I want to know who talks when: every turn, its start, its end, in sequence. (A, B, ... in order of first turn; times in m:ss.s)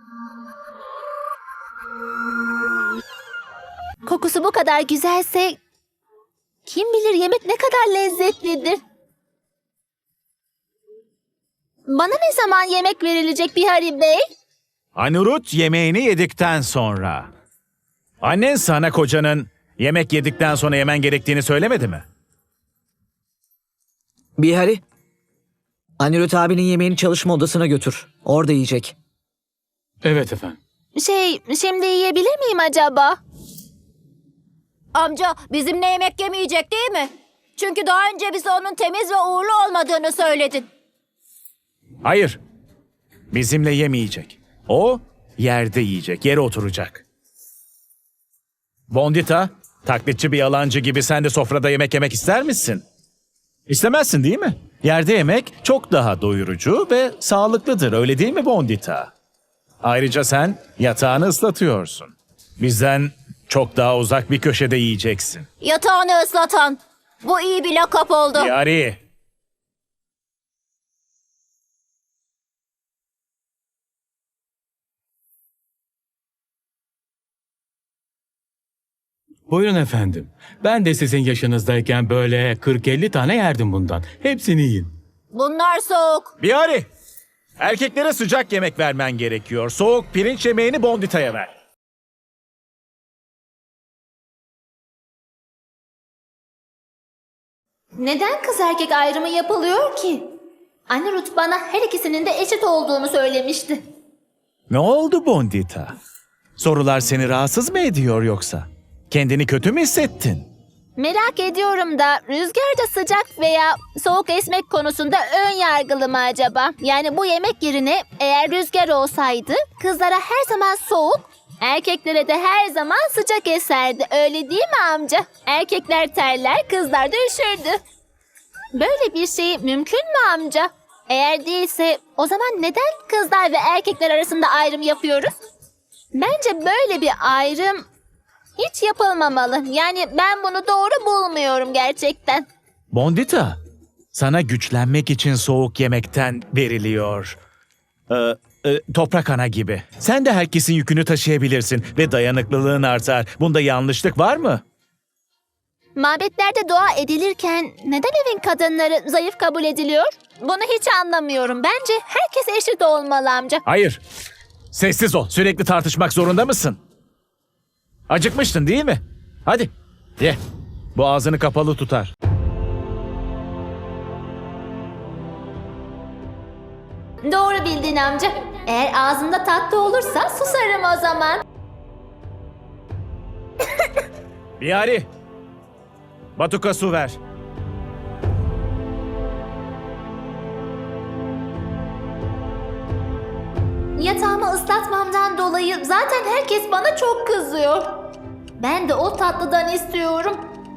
0:04.0-0:05.6 A
0:06.6-0:08.8 A
0:11.9-0:14.2 A
0:14.9-0:17.3 B
0:18.2-0:22.0 B
0:24.4-0:24.8 C
0:26.0-0:28.9 C
0:30.0-0:30.6 D
0:31.0-0:33.2 A
0:34.9-0:40.6 E
0:42.0-0:42.4 B
0:43.3-0:47.0 B
0:48.9-0:52.8 B
0:53.7-0:59.1 B
0:59.8-1:05.4 B
1:05.6-1:08.5 E
1:08.4-1:09.0 B
1:19.5-1:24.9 D
1:25.3-1:26.3 E
1:26.4-1:26.8 B
1:27.6-1:31.5 B
1:38.0-1:40.2 A
1:40.9-1:43.8 A
1:44.7-1:45.9 B
1:46.6-1:50.5 B
1:51.0-2:07.8 A
2:08.7-2:15.3 A
2:16.1-2:17.8 A
2:18.6-2:22.4 A
2:22.9-2:23.6 B
2:24.1-2:27.4 B
2:28.1-2:34.6 B
2:36.0-2:43.6 A
2:43.6-2:44.0 B
2:44.7-2:46.8 B
2:48.1-2:50.4 B
2:50.9-2:52.1 B
2:57.2-3:01.4 A
3:04.6-3:05.0 B
3:06.4-3:07.2 B
3:14.0-3:18.0 A
3:18.6-3:20.4 A